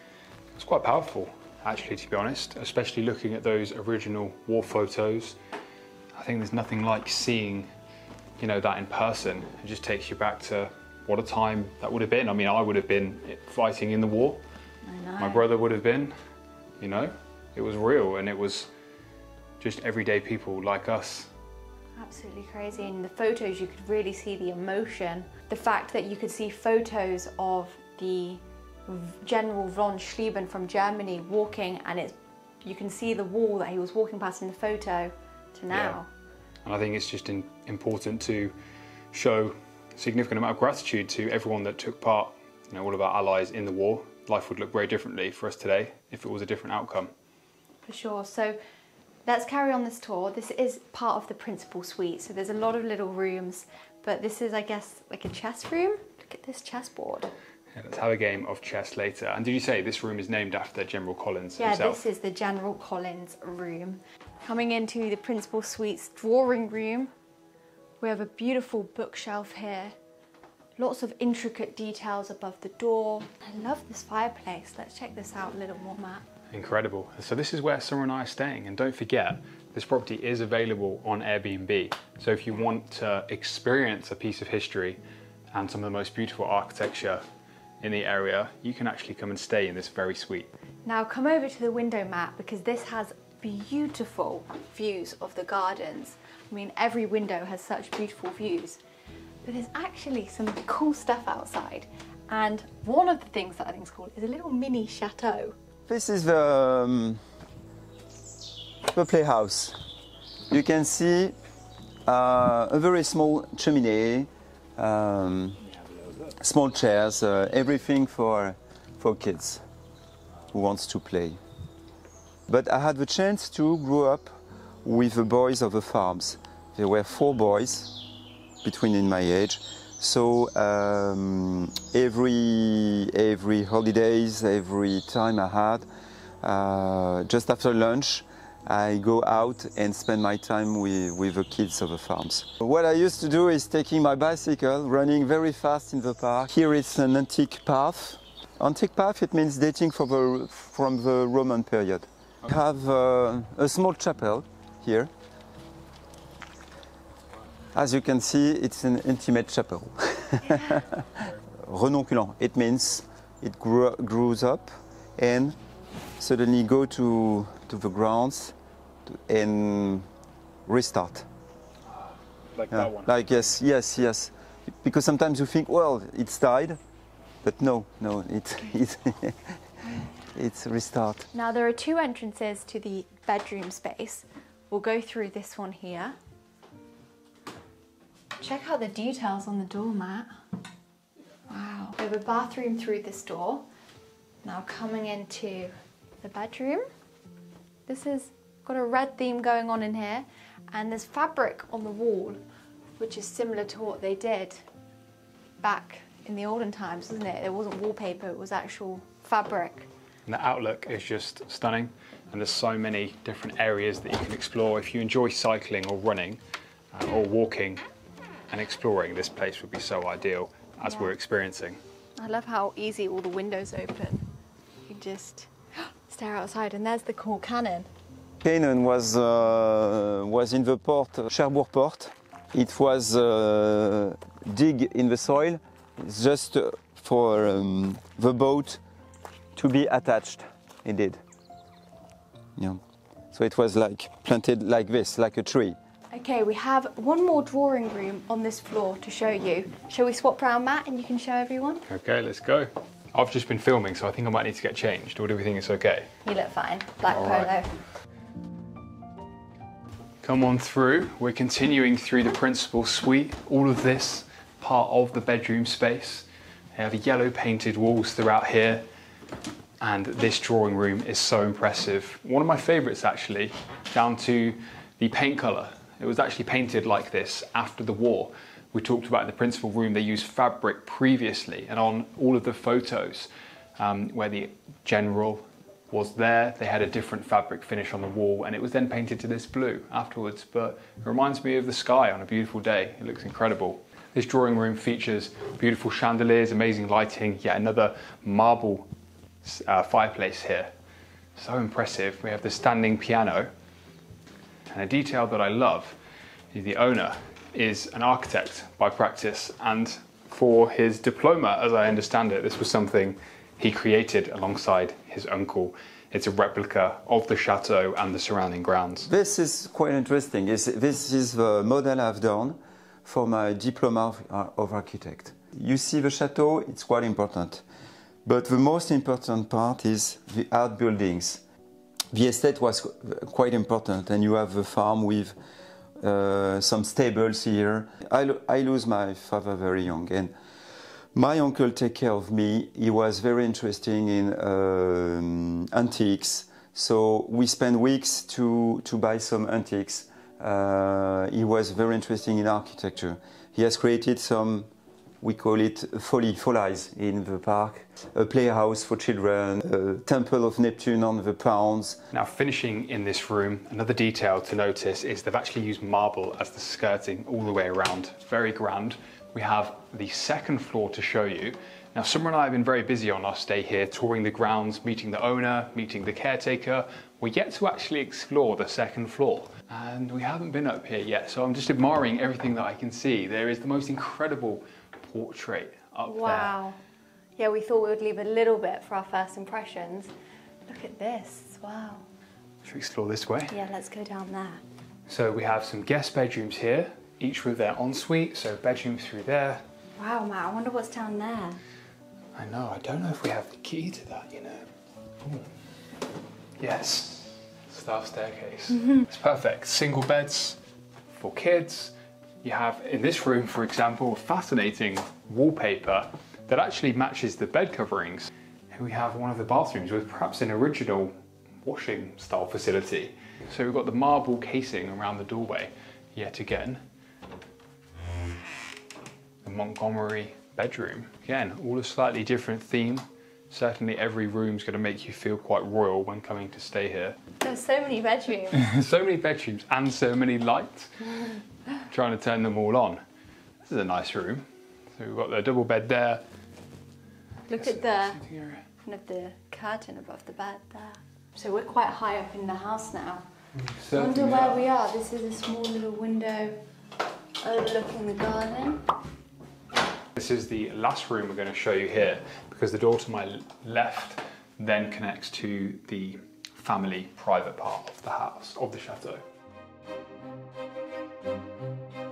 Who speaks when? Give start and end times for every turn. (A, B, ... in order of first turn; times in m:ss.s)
0:00.6-0:05.4 A
0:06.2-0:07.7 A
0:08.4-0:14.4 A
0:14.8-0:15.4 B
0:15.2-0:16.1 A
0:16.8-0:18.7 A
0:19.6-0:21.3 A
0:22.0-0:36.1 B
0:35.7-0:36.0 A
0:36.6-0:38.5 A
0:39.1-0:47.1 A
0:47.9-0:48.6 B
0:49.3-0:57.3 B
0:57.7-1:02.0 A
1:01.6-1:07.1 B
1:08.0-1:10.0 B
1:10.8-1:16.3 B
1:16.5-1:25.0 A
1:25.5-1:27.2 A
1:27.8-1:30.5 A
1:30.8-1:38.8 B
1:39.4-1:45.6 B
1:45.9-1:47.2 C
1:48.9-1:49.8 C
1:50.5-1:51.4 C
1:52.1-1:55.6 C
1:56.4-1:59.6 C
2:00.5-2:01.4 C
2:02.5-2:08.0 C
2:08.6-2:15.9 C
2:16.4-2:35.1 C
2:37.7-2:45.6 C
2:46.2-2:48.6 C
2:49.1-2:50.1 C
2:50.7-2:51.3 C
2:52.0-2:53.6 A
2:52.7-2:56.8 C
2:57.4-2:59.6 C
3:00.3-3:01.3 C
3:01.3-3:06.2 B
3:08.4-3:10.3 B
3:11.5-3:13.7 B
3:14.4-3:16.9 B
3:17.9-3:22.4 B
3:23.0-3:24.6 B
3:25.6-3:29.9 B
3:30.3-3:36.4 A
3:36.9-3:37.8 A
3:38.5-3:41.8 A
3:40.8-3:41.1 B
3:42.2-3:44.3 B
3:44.9-3:47.9 B
3:48.4-3:58.8 C
3:59.6-4:01.2 C
4:02.6-4:02.8 C
4:03.3-4:05.8 C
4:06.1-4:11.8 B
4:11.9-4:16.1 A
4:16.2-4:17.8 B
4:17.1-4:17.5 A
4:20.2-4:28.9 A
4:29.8-4:58.9 A
4:59.4-5:00.7 A
5:01.4-5:03.5 A
5:04.7-5:06.0 A
5:06.5-5:19.1 A
5:19.1-5:27.6 C
5:28.2-5:31.4 C
5:32.1-5:35.4 C
5:36.0-5:40.3 C
5:41.2-5:54.7 C
5:55.2-6:02.0 C
6:02.1-6:26.6 A
6:26.0-6:26.8 B
6:27.4-6:30.1 B
6:30.7-6:32.1 B
6:32.6-6:33.6 A
6:33.5-6:34.6 B
6:35.1-6:39.6 A
6:40.0-6:41.6 B
6:42.4-6:44.7 A
6:45.2-6:45.5 A
6:46.6-6:50.6 A
6:51.2-7:06.8 A
7:09.4-7:17.2 A
7:17.4-7:18.7 B
7:18.5-7:21.3 A
7:21.9-7:23.0 A
7:23.7-7:26.2 A
7:27.5-7:28.2 B
7:27.5-7:28.6 A
7:28.8-7:33.2 B
7:33.6-7:34.7 A
7:33.9-7:36.6 B
7:37.4-7:38.9 B
7:40.2-7:49.2 A